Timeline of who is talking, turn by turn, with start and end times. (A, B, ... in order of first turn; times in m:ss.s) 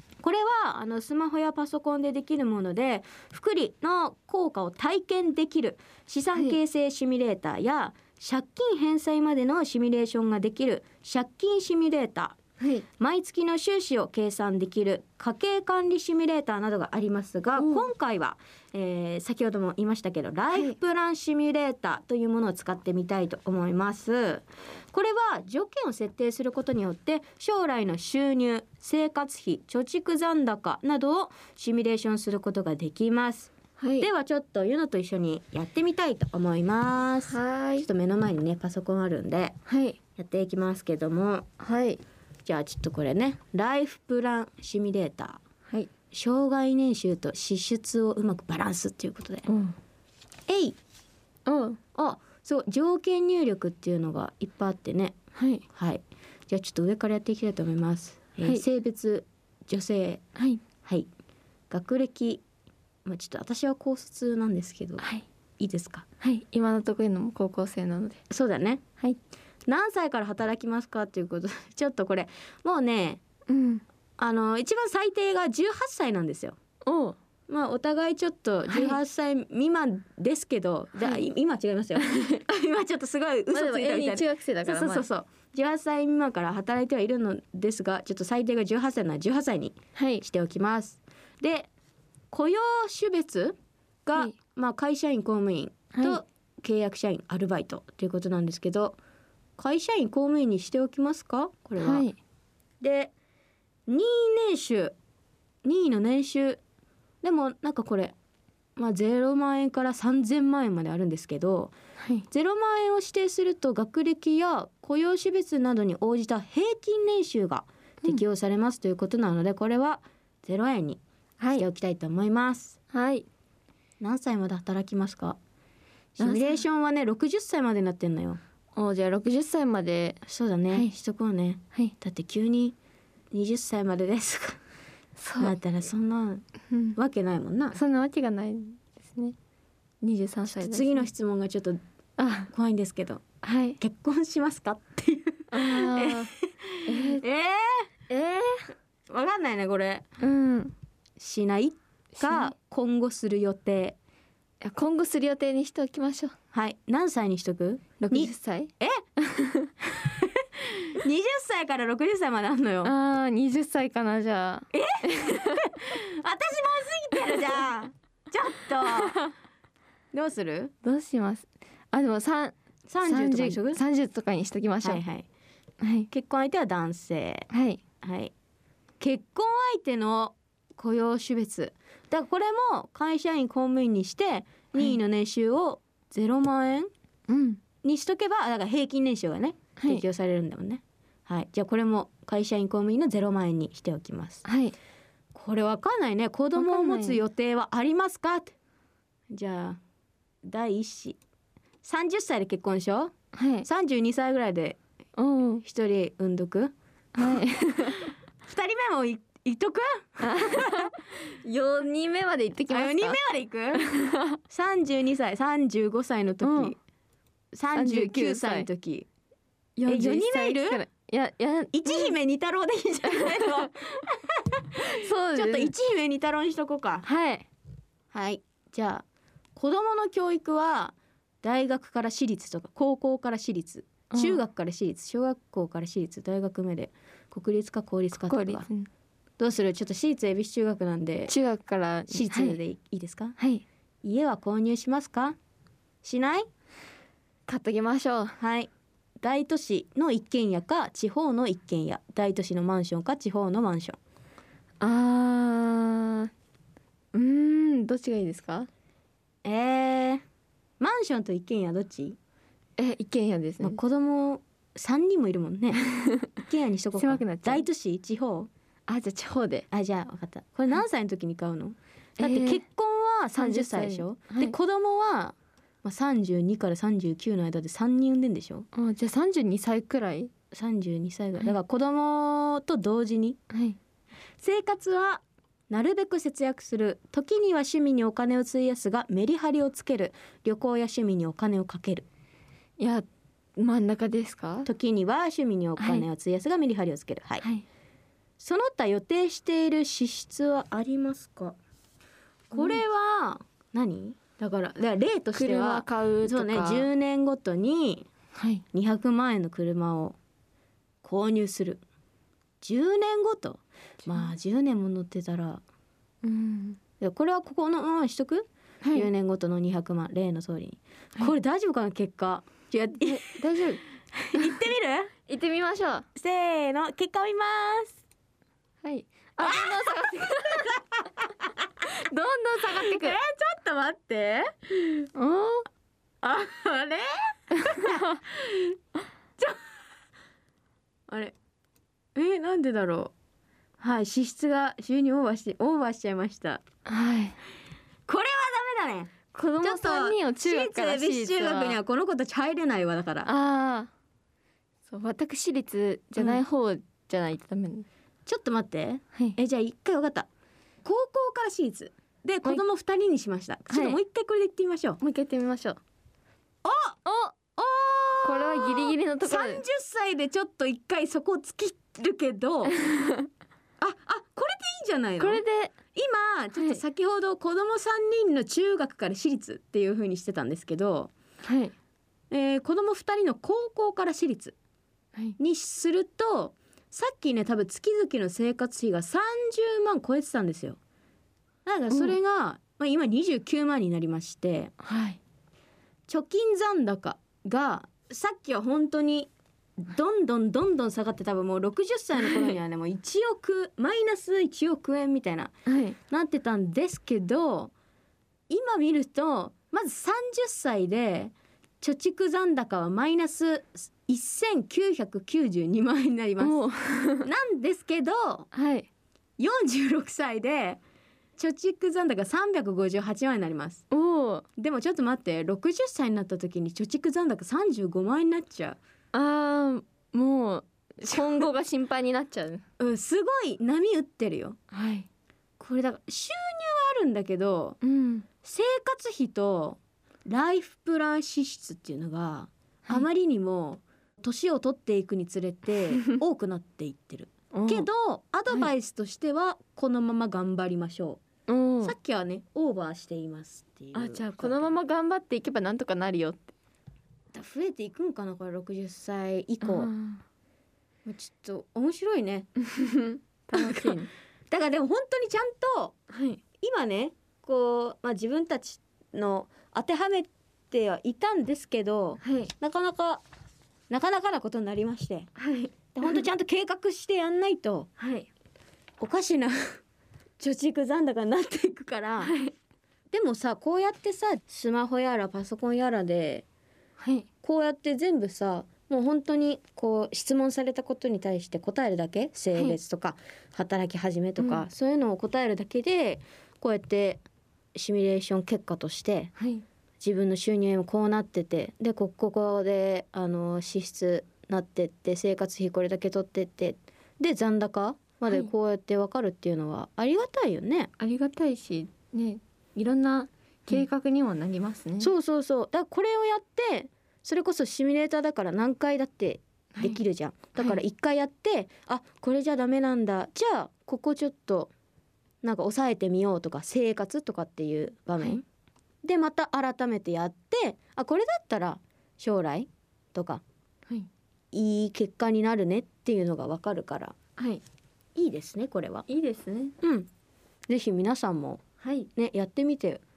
0:00.2-0:12.4 A
0:12.6-0:12.8 B
0:13.0-0:39.6 A
0:17.6-0:17.9 B
0:33.8-0:34.1 B
0:37.3-0:37.9 B
0:39.7-0:40.0 B
0:40.2-0:41.5 A
0:41.6-0:42.0 B
0:42.4-0:45.4 A
0:46.1-0:49.5 A
0:49.5-0:49.8 B
0:50.5-0:50.8 A
0:51.4-0:51.8 B
0:51.9-0:55.2 A
0:55.3-0:55.6 B
0:55.7-1:00.2 A
1:00.4-1:00.6 B
1:01.7-1:02.4 A
1:03.0-1:05.1 A
1:05.0-1:05.2 B
1:05.6-1:06.0 A
1:06.2-1:08.2 B
1:08.3-1:08.8 A
1:09.6-1:13.2 A
1:13.5-1:13.8 B
1:14.2-1:16.6 A
1:16.8-1:17.2 B
1:17.5-1:31.7 A
1:18.7-1:19.0 B
1:21.0-1:21.2 B
1:22.0-1:22.4 B
1:23.5-1:25.0 B
1:30.0-1:30.2 B
1:32.3-1:39.0 A
1:35.9-1:36.2 B
1:39.6-1:42.1 A
1:41.8-1:42.2 B
1:42.8-1:43.1 A
1:43.9-1:44.9 A
1:45.6-1:46.6 A
1:47.2-1:48.1 A
1:48.8-1:51.7 A
1:52.0-1:52.2 B
1:52.3-2:01.0 A
2:01.4-2:01.6 B
2:01.5-2:02.8 A
2:02.9-2:03.2 B
2:04.0-2:05.4 A
2:06.2-2:08.4 A
2:06.2-2:06.6 B
2:08.7-2:10.9 B
2:10.2-2:12.8 A
2:13.3-2:14.6 A
2:15.2-2:15.5 B
2:15.4-2:17.8 A
2:16.7-2:17.0 B
2:17.7-2:19.3 B
2:20.0-2:21.1 B
2:20.5-2:21.8 A
2:22.2-2:22.5 B
2:22.5-2:23.2 A
2:23.4-2:23.8 B
2:23.8-2:27.9 A
2:25.5-2:26.3 B
2:26.8-2:27.2 B
2:28.1-2:28.7 B
2:29.1-2:30.1 A
2:30.2-2:30.7 B
2:31.2-2:34.0 A
2:32.2-2:32.5 B
2:34.6-2:36.3 B
2:36.5-2:39.0 A
2:38.0-2:39.7 B
2:39.8-2:42.9 A
2:42.8-2:45.7 B
2:44.7-2:49.2 A
2:48.8-2:49.3 B
2:50.1-2:50.7 A
2:50.8-2:55.0 B
2:52.9-2:53.8 A
2:54.8-2:55.2 A
2:55.8-2:56.1 B
2:56.1-2:57.5 A
2:57.5-2:57.8 B
2:58.0-2:58.3 A
2:59.0-3:06.9 A
3:07.3-3:07.6 B
3:07.8-3:14.4 A
3:09.8-3:10.0 B
3:14.4-3:14.7 B
3:15.3-3:18.5 A
3:16.6-3:17.2 B
3:19.3-3:19.8 A
3:20.4-3:21.2 A
3:21.8-3:24.8 A
3:23.3-3:23.6 B
3:25.2-3:25.6 B
3:25.6-3:27.4 A
3:27.2-3:28.1 B
3:28.4-3:30.9 A
3:30.2-3:33.2 B
3:32.7-3:33.9 A
3:33.7-3:34.4 B
3:34.5-3:36.8 A
3:36.4-3:36.8 B
3:37.5-3:39.1 A
3:37.7-3:38.7 B
3:39.8-3:42.1 B
3:39.8-3:40.8 A
3:41.7-3:47.0 A
3:43.1-3:43.7 B
3:44.8-3:45.7 B
3:47.0-3:47.4 B
3:48.1-3:49.0 A
3:49.6-3:58.7 A
3:54.1-3:54.4 B
3:58.3-3:58.9 B
3:59.4-4:01.3 A
4:01.3-4:02.6 B
4:02.1-4:03.4 A
4:03.4-4:03.6 B
4:04.0-4:05.4 A
4:06.0-4:06.5 A
4:07.5-4:08.4 B
4:08.4-4:14.0 A
4:14.8-4:16.3 B
4:17.1-4:18.7 B
4:19.4-4:20.2 A
4:20.8-4:22.2 A
4:22.8-4:23.8 B
4:23.6-4:28.5 A
4:25.8-4:26.3 B
4:27.0-4:27.6 B
4:28.9-4:29.6 B
4:29.7-4:38.7 A
4:32.2-4:32.6 B
4:33.3-4:34.5 B
4:38.7-4:40.3 B
4:40.5-4:43.4 A
4:43.5-4:43.8 B
4:44.4-4:52.1 A
4:52.8-4:53.0 B
4:53.6-4:54.7 B
4:54.6-4:57.4 A
4:55.8-4:56.0 B
4:58.4-5:01.6 A
5:02.5-5:08.1 A
5:02.5-5:02.8 B
5:05.3-5:06.9 B
5:08.3-5:08.6 B
5:08.7-5:10.2 A
5:11.0-5:11.8 A
5:12.6-5:15.6 A
5:16.2-5:16.8 B
5:17.0-5:23.4 A
5:18.8-5:19.1 B
5:23.0-5:23.8 B
5:24.1-5:25.1 A
5:25.2-5:26.0 B
5:26.1-5:28.0 A
5:28.8-5:30.8 B
5:29.4-5:29.7 A
5:31.4-5:31.7 A
5:31.8-5:33.2 B
5:32.7-5:35.0 A
5:35.1-5:35.7 B
5:36.2-5:38.7 A
5:37.6-5:38.2 B
5:39.4-5:39.7 A
5:41.1-5:41.3 A
5:42.1-5:43.1 A
5:43.8-5:46.6 A
5:46.8-5:47.4 B
5:48.1-5:53.3 A
5:49.3-5:51.8 B
5:53.2-5:53.9 B
5:54.9-5:57.9 B
5:56.2-5:56.4 A
5:58.2-6:00.3 A
6:00.8-6:05.0 A
6:03.7-6:04.0 B
6:05.0-6:05.8 B
6:06.6-6:07.0 A
6:07.0-6:07.3 B
6:07.5-6:12.8 A
6:08.2-6:09.6 B
6:12.7-6:13.3 B
6:13.8-6:15.4 A
6:15.2-6:15.7 B
6:15.9-6:21.1 A
6:16.5-6:16.8 B
6:21.4-6:21.7 B
6:22.3-6:24.5 A
6:25.4-6:30.8 A
6:31.6-6:34.7 A
6:31.9-6:32.2 B
6:34.8-6:35.2 B
6:36.1-6:45.5 A
6:45.6-6:46.0 B
6:46.1-6:47.7 A
6:48.5-6:56.7 A
6:56.4-6:57.3 B
6:57.2-6:58.5 A
6:58.5-6:58.9 B
6:59.4-7:00.8 A
7:01.4-7:03.8 A
7:03.9-7:04.4 B
7:04.6-7:08.8 A
7:09.1-7:12.6 B
7:11.0-7:11.4 A
7:12.8-7:14.6 A
7:14.7-7:15.0 B
7:15.6-7:17.8 A
7:17.8-7:18.2 B
7:18.4-7:31.2 A
7:27.5-7:27.9 B
7:31.5-7:31.9 B
7:31.8-7:34.6 A
7:33.9-7:36.5 B
7:37.3-7:39.9 A
7:39.6-7:40.2 B
7:41.0-7:42.5 A
7:42.6-7:44.1 B
7:43.5-7:46.0 A
7:46.1-7:46.4 B
7:46.6-7:53.2 A
7:52.2-7:52.5 B
7:53.9-7:55.3 A
7:55.4-7:56.2 B
7:55.9-7:57.9 A
7:58.0-7:58.3 B
7:59.0-7:59.8 A
8:00.4-8:02.4 A
8:02.2-8:02.5 B
8:03.1-8:06.4 A
8:07.0-8:07.3 B
8:07.4-8:17.2 A
8:14.4-8:14.6 B
8:17.7-8:19.3 A
8:19.4-8:19.6 B
8:20.0-8:30.9 A
8:31.0-8:35.1 B
8:35.0-8:44.7 A
8:40.6-8:40.8 B
8:45.4-8:48.4 A
8:49.0-8:53.4 A
8:54.5-8:57.1 A
8:57.4-8:57.6 B
8:58.1-8:59.1 A
8:59.1-8:59.7 B
8:59.8-9:00.1 A
9:00.7-9:01.6 A
9:01.8-9:02.1 B
9:02.1-9:03.0 A